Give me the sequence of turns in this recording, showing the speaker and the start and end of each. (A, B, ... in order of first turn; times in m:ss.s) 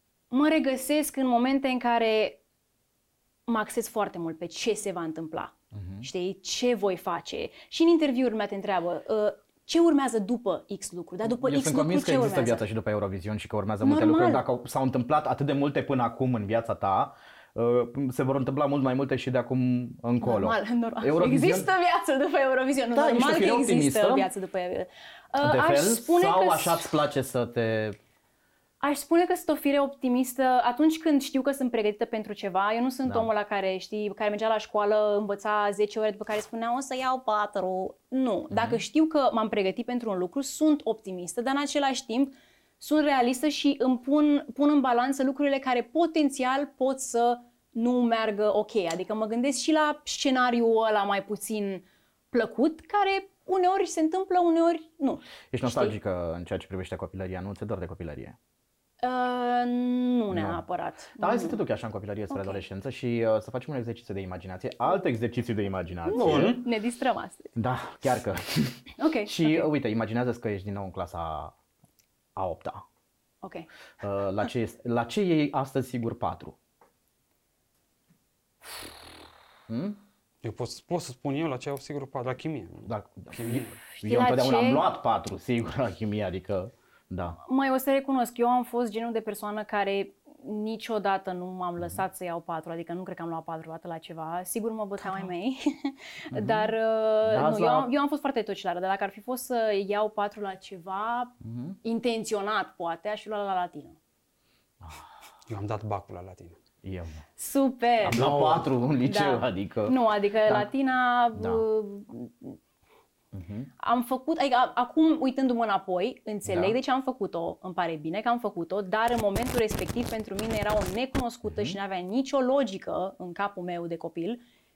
0:00.3-0:02.4 A
0:03.5-0:12.6 A
0:05.7-0:06.1 B
0:11.2-0:21.7 B
0:13.8-0:14.4 A
0:20.2-0:26.9 A
0:23.0-0:24.3 B
0:25.4-0:28.0 B
0:28.8-0:56.0 A
0:33.0-0:33.3 B
0:38.5-0:38.8 B
0:55.5-0:58.4 B
0:59.0-1:01.6 A
1:00.3-1:00.6 B
1:01.2-1:06.6 B
1:02.3-1:02.6 A
1:06.0-1:07.5 A
1:06.2-1:06.6 C
1:07.5-1:11.6 B
1:09.0-1:09.7 A
1:12.4-1:12.8 B
1:13.4-1:13.7 A
1:14.0-1:16.6 B
1:19.7-1:20.0 B
1:20.4-1:23.7 C
1:22.9-1:27.4 B
1:24.0-1:24.8 A
1:27.4-1:44.0 A
1:36.3-1:37.9 B
1:41.4-1:41.8 B
1:45.5-1:46.6 C
1:46.8-1:47.2 B
1:47.4-1:48.4 A
1:48.0-1:50.7 B
1:48.1-1:48.7 C
1:49.0-1:52.6 A
1:51.4-1:51.6 B
1:53.3-1:53.7 B
1:53.8-2:04.4 A
1:56.5-1:56.8 B
2:01.4-2:01.8 B